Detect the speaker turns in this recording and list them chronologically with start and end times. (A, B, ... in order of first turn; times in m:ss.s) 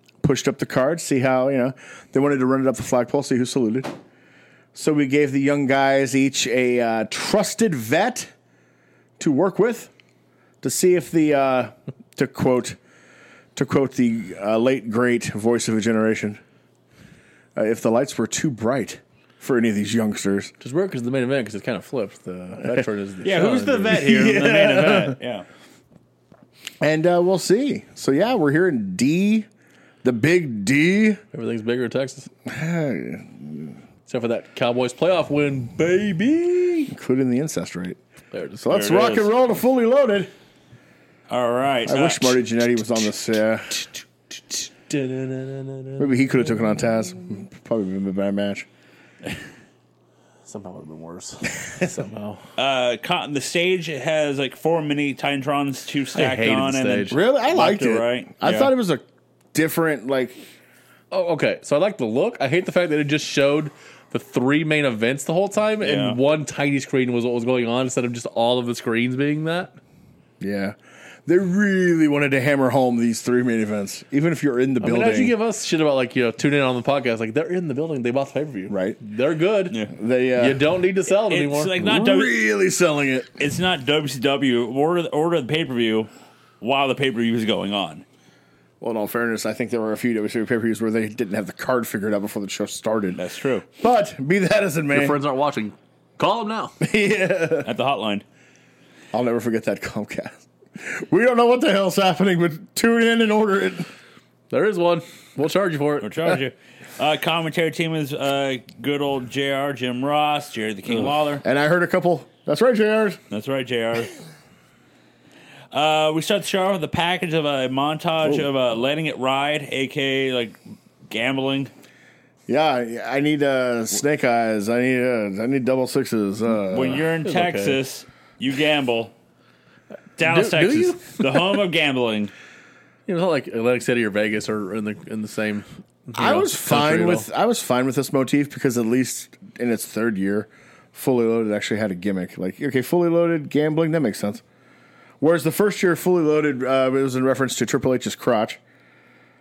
0:00.2-0:03.9 A
0:04.7-0:08.3 A
0:09.2-0:09.9 A
0:10.6-0:12.8 A
0:13.6-0:16.4 A
0:17.6-0:20.5 A
0:20.6-0:24.0 B
0:23.2-0:25.5 C
0:23.9-0:25.2 A
0:26.8-0:29.5 A
0:30.0-0:31.2 A
0:31.3-0:32.3 B
0:32.4-0:33.8 A
0:34.1-0:36.9 B
0:36.9-0:38.0 A
0:38.3-0:39.0 B
0:38.6-0:40.3 A
0:38.7-0:39.3 C
0:41.3-0:42.4 C
0:41.8-0:43.9 A
0:44.9-0:46.3 B
0:46.0-0:48.7 A
0:50.5-0:52.4 B
0:52.6-0:58.7 C
0:56.2-0:57.2 B
0:57.1-1:00.4 A
1:01.1-1:09.8 B
1:05.8-1:06.2 C
1:10.4-1:15.3 A
1:14.8-1:19.8 B
1:18.7-1:19.0 A
1:19.9-1:20.6 A
1:20.4-1:21.7 B
1:21.2-1:22.3 C
1:21.8-1:23.4 A
1:23.4-1:26.1 C
1:26.6-1:28.0 C
1:28.8-1:33.2 A
1:33.2-1:33.7 C
1:33.8-1:35.2 A
1:34.9-1:36.8 B
1:36.8-1:37.7 A
1:37.6-1:38.2 C
1:39.1-1:43.9 A
1:44.5-1:46.3 B
1:46.0-1:51.4 C
1:51.4-1:53.2 A
1:53.3-1:54.2 C
1:55.7-2:00.6 C
2:01.1-2:01.7 C
2:02.5-2:07.0 A
2:06.7-2:09.1 C
2:06.9-2:07.8 B
2:10.2-2:12.3 C
2:10.2-2:11.6 B
2:13.1-2:17.3 B
2:16.2-2:24.4 A
2:25.2-2:28.6 A